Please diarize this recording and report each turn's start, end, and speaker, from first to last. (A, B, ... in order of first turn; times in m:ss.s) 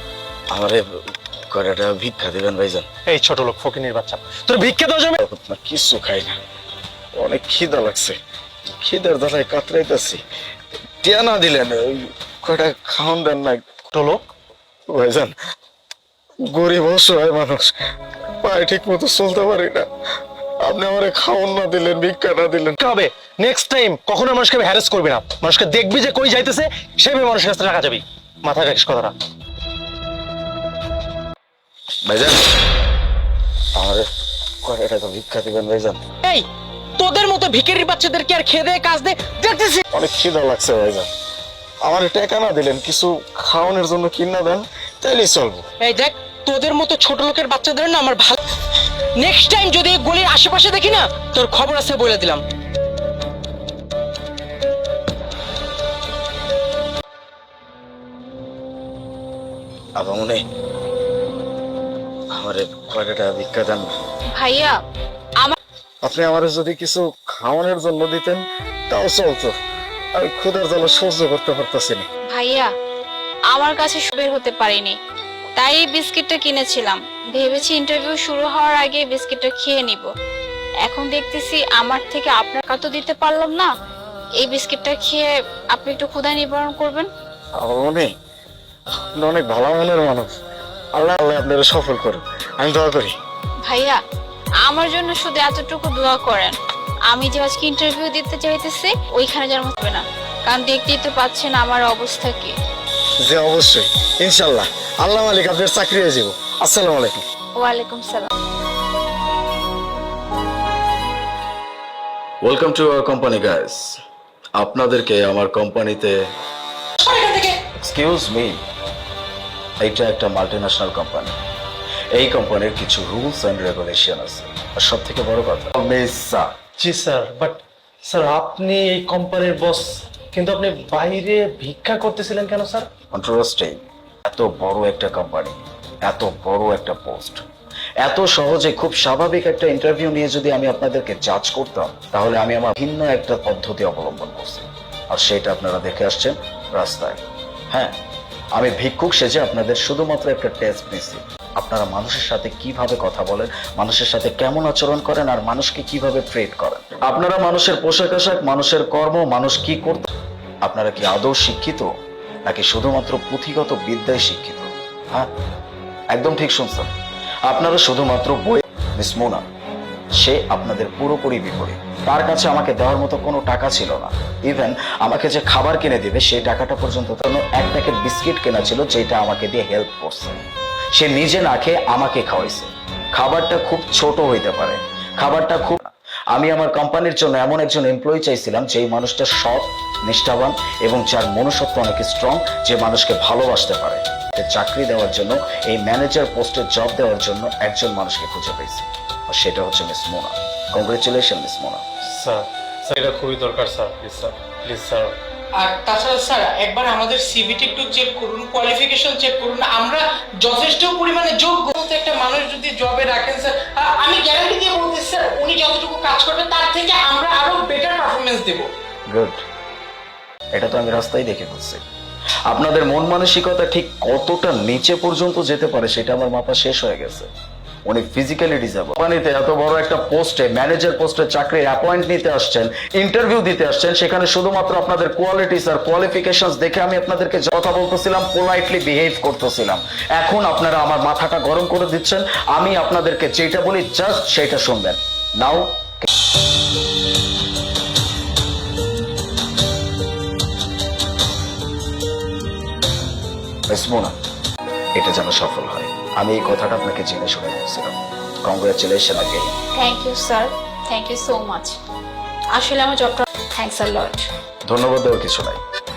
0:00.5-0:02.8 A
0:03.1-0:05.2 B
0:05.2-0:06.4 A
0:07.2-0:08.2 A
0:08.8-0:10.2 A
0:11.0-0:13.6 A
0:13.9-0:14.2 B
0:14.9-0:15.3 A
0:16.4-0:17.7 A
0:18.4-0:19.9 A
0:20.6-0:22.7 A
0:22.8-0:29.2 B
0:32.0-0:32.4 A
0:33.8-0:34.1 A
0:34.6-0:36.0 A
0:37.0-0:39.8 C
0:39.9-0:41.0 A
0:41.9-0:45.6 A
0:45.8-0:48.4 C
0:49.2-0:52.4 C
1:00.0-1:00.4 A
1:02.3-1:04.0 A
1:04.3-1:04.7 D
1:06.0-1:09.5 A
1:10.2-1:12.0 A
1:12.3-1:12.7 D
1:13.5-1:15.0 D
1:15.6-1:20.1 D
1:20.8-1:23.7 D
1:24.4-1:27.1 D
1:27.6-1:28.1 A
1:29.2-1:30.3 A
1:31.0-1:33.1 A
1:33.6-1:34.0 D
1:34.6-1:36.6 D
1:37.1-1:42.5 D
1:43.2-1:47.2 A
1:47.6-1:48.3 D
1:52.4-1:54.0 A
1:54.6-1:56.2 A
1:57.0-1:57.6 C
1:57.8-1:58.6 A
1:59.8-2:01.4 A
2:02.1-2:06.5 A
2:06.8-2:12.9 B
2:13.1-2:17.4 A
2:18.0-2:28.0 A
2:28.6-2:40.1 A
2:40.6-2:41.9 A
2:42.4-2:45.3 A
2:46.1-2:46.9 A
2:47.4-2:49.5 A
2:50.2-3:21.8 A
3:22.1-3:25.1 B
3:25.6-3:38.7 C
3:39.1-3:39.4 A
3:40.5-3:41.8 A
3:42.5-3:47.3 A
3:47.8-4:06.1 A
4:13.7-4:14.2 A
4:14.9-4:19.5 A
4:19.7-4:21.8 D
4:22.5-4:24.3 D
4:24.6-4:25.6 A